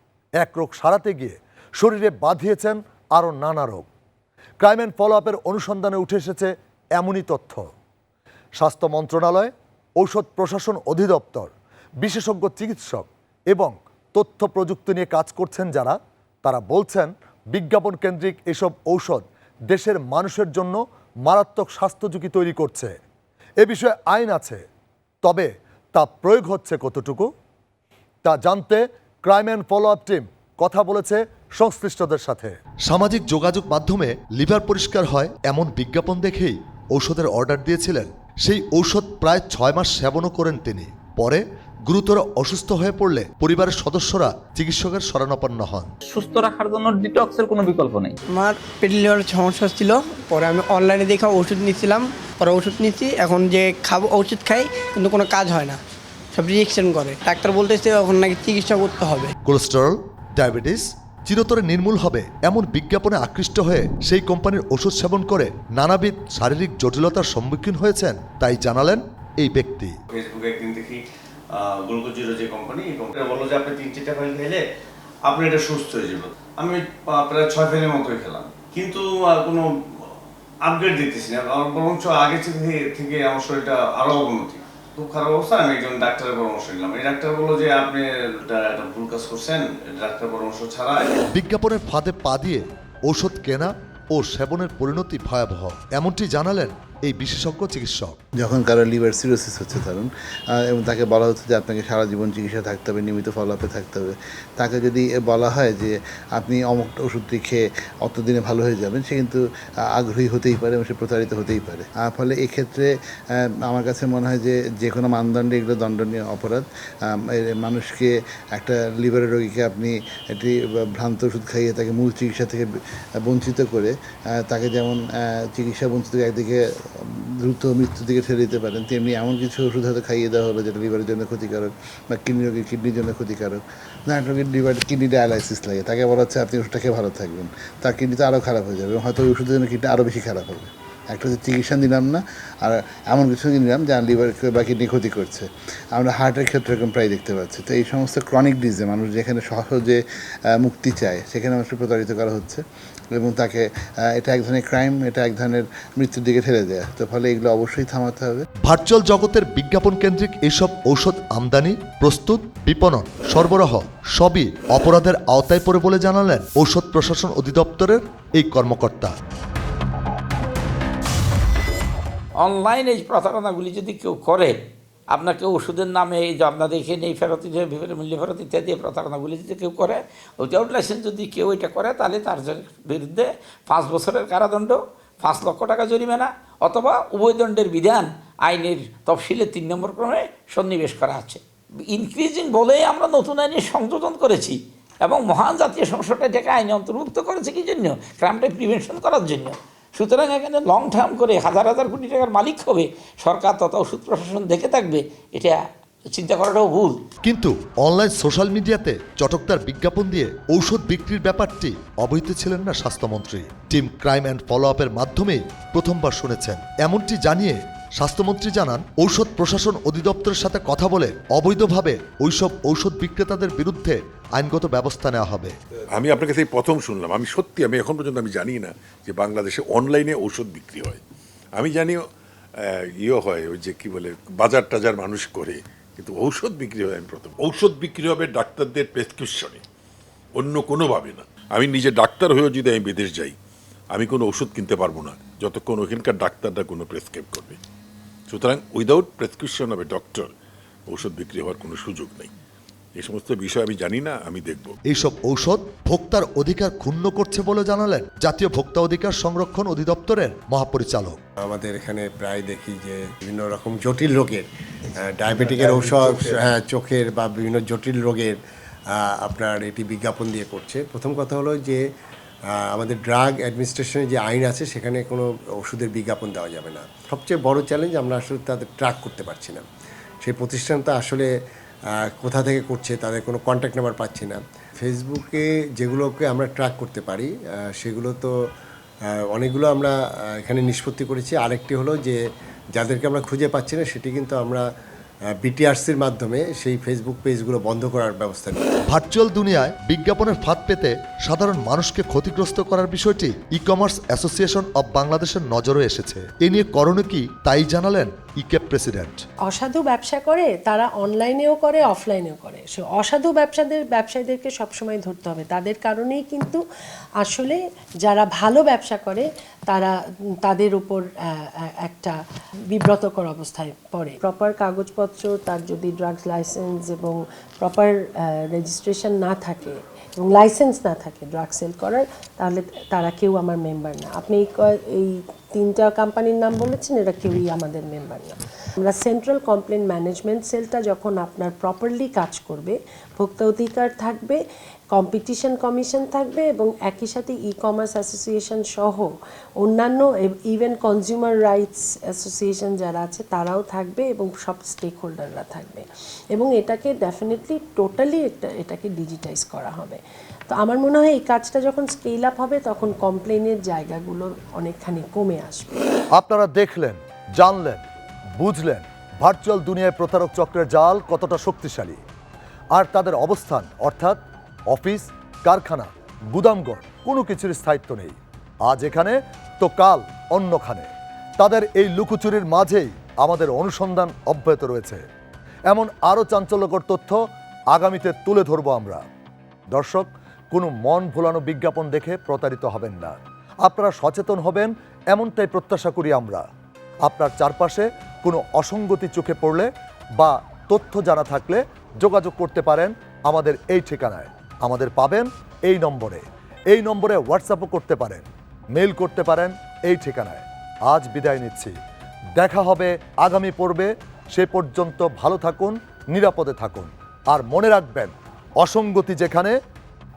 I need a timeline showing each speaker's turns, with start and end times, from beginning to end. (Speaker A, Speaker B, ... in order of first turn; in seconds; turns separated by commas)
Speaker A: 0.4-3.9, Speaker A: 4.6-7.7, Speaker A: 8.6-23.0, Speaker A: 23.6-24.6, Speaker A: 25.2-27.3, Speaker A: 28.2-45.9, Speaker B: 46.1-48.1, Speaker C: 48.3-55.8, Speaker C: 56.4-59.3, Speaker A: 59.5-70.0, Speaker D: 70.1-71.0, Speaker D: 71.5-74.6, Speaker D: 75.3-80.1, Speaker D: 80.7-91.2, Speaker A: 91.3-98.2, Speaker E: 98.4-122.7, Speaker E: 123.2-152.6, Speaker E: 153.1-158.5, Speaker A: 158.6-169.2, Speaker F: 172.4-174.6, Speaker F: 175.1-205.6, Speaker F: 206.1-207.0, Speaker A: 207.2-225.6, Speaker G: 225.9-231.0, Speaker G: 231.6-232.0, Speaker G: 232.6-239.6, Speaker G: 240.4-243.4, Speaker G: 243.9-247.6, Speaker G: 248.3-250.3, Speaker G: 250.9-252.3, Speaker G: 253.0-254.8, Speaker A: 254.9-261.2, Speaker H: 261.4-268.4, Speaker H: 268.9-271.8, Speaker H: 272.6-279.6, Speaker H: 280.2-281.3, Speaker H: 282.2-288.3, Speaker H: 289.3-292.2, Speaker H: 292.8-294.7, Speaker H: 295.4-298.8, Speaker A: 298.9-309.2, Speaker I: 309.5-316.6, Speaker I: 317.2-319.9, Speaker I: 320.4-322.2, Speaker I: 322.7-344.4, Speaker I: 344.9-349.1, Speaker I: 349.6-365.8, Speaker A: 366.2-367.9, Speaker A: 368.4-372.0, Speaker A: 372.8-385.0, Speaker A: 385.7-387.2, Speaker A: 387.7-389.0, Speaker A: 389.7-396.4, Speaker A: 397.1-411.8, Speaker A: 412.4-419.6